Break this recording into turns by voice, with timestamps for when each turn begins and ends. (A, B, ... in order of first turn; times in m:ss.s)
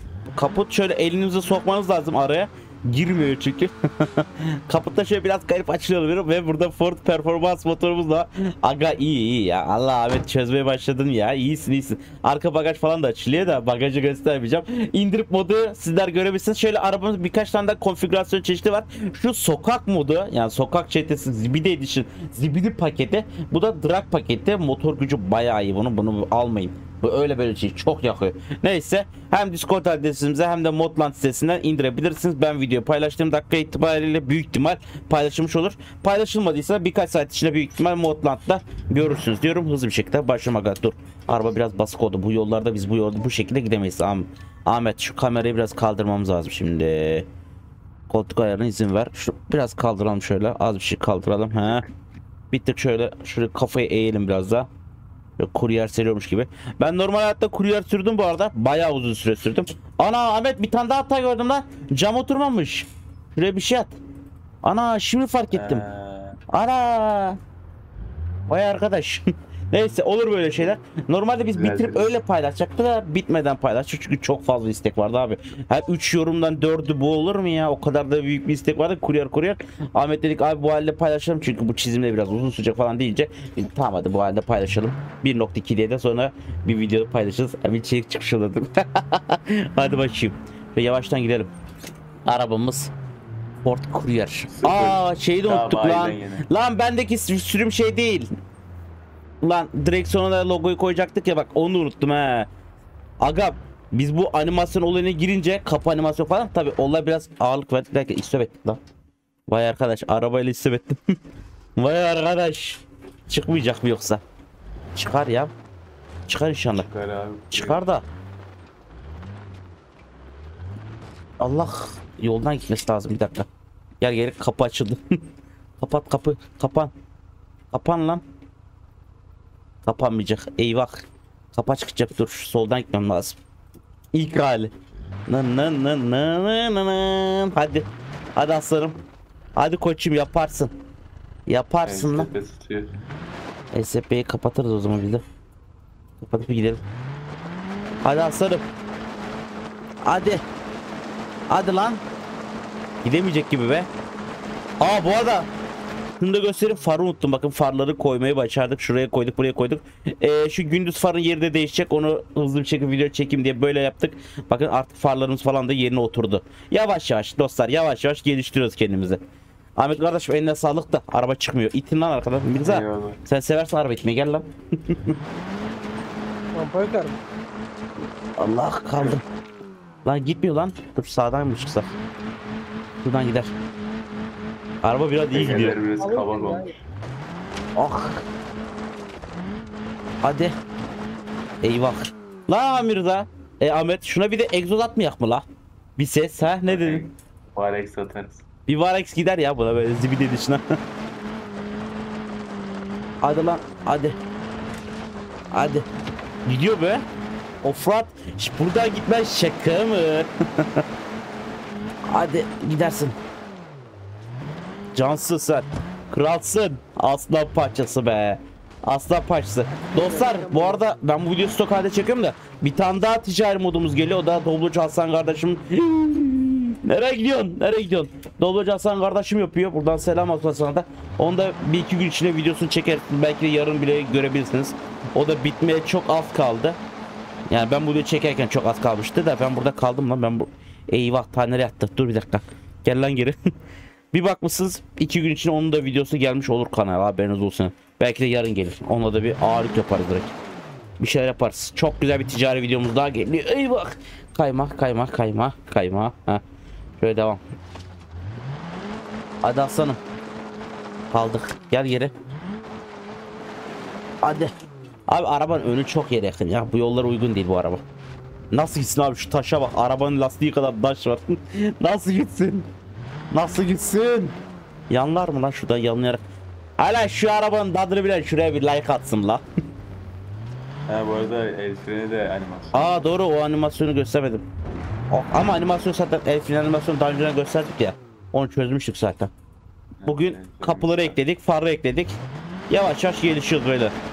0:00.3-0:47.3 A
0:48.1-0:51.8 A
0:52.5-0:54.7 A
0:55.4-1:04.0 A
1:04.6-1:05.8 A
1:05.5-1:06.4 B
1:06.5-1:07.4 A
1:08.5-1:31.5 A
1:11.5-1:12.2 B
1:32.2-1:32.9 A
1:33.6-1:38.3 A
1:34.5-1:36.4 B
1:39.4-1:42.5 A
1:43.2-1:48.8 A
1:49.5-1:51.1 A
1:51.8-1:54.2 A
1:54.9-1:55.5 A
1:56.3-1:56.9 A
1:56.7-1:57.9 B
1:57.5-1:58.0 A
2:01.4-2:03.5 A
2:04.0-2:05.2 A
2:05.8-2:06.9 A
2:07.7-2:08.2 A
2:09.8-2:13.4 A
2:14.1-2:14.7 A
2:15.3-2:19.0 A
2:19.6-2:20.7 A
2:21.5-2:22.3 A
2:21.8-2:22.9 B
2:23.7-2:25.2 A
2:26.2-2:26.8 A
2:28.0-2:28.6 A
2:30.0-2:30.4 A
2:31.5-2:32.0 A
2:33.0-2:33.9 A
2:34.8-2:35.5 A
2:36.2-2:49.2 A
2:49.8-2:55.2 A
2:52.6-2:53.2 B
2:56.5-2:57.2 C
2:58.4-2:59.2 A
3:00.0-3:01.9 A
3:03.0-3:03.5 A
3:04.8-3:05.8 A
3:05.3-3:06.8 B
3:06.0-3:06.7 C
3:07.8-3:08.2 A
3:10.2-3:10.5 A
3:11.6-3:15.4 A
3:16.0-3:17.0 A
3:16.6-3:18.4 B
3:18.7-3:20.6 A
3:23.2-3:24.2 A
3:25.5-3:25.8 A
3:26.4-3:27.0 A
3:27.6-3:30.8 A
3:32.1-3:33.2 A
3:34.9-3:56.8 A
3:39.7-3:40.8 C
3:57.5-4:03.4 A
4:04.1-4:10.3 A
4:11.0-4:16.4 A
4:17.0-4:17.4 A
4:19.4-4:20.0 A
4:21.1-4:22.1 A
4:24.2-4:24.5 A
4:25.1-4:27.8 A
4:28.5-4:32.7 A
4:33.3-4:34.4 A
4:34.9-4:36.2 A
4:36.8-4:39.4 A
4:40.9-4:43.1 B
4:42.7-4:44.4 A
4:45.1-4:49.3 A
4:50.0-4:51.2 B
4:50.0-4:52.2 A
4:52.7-4:53.9 A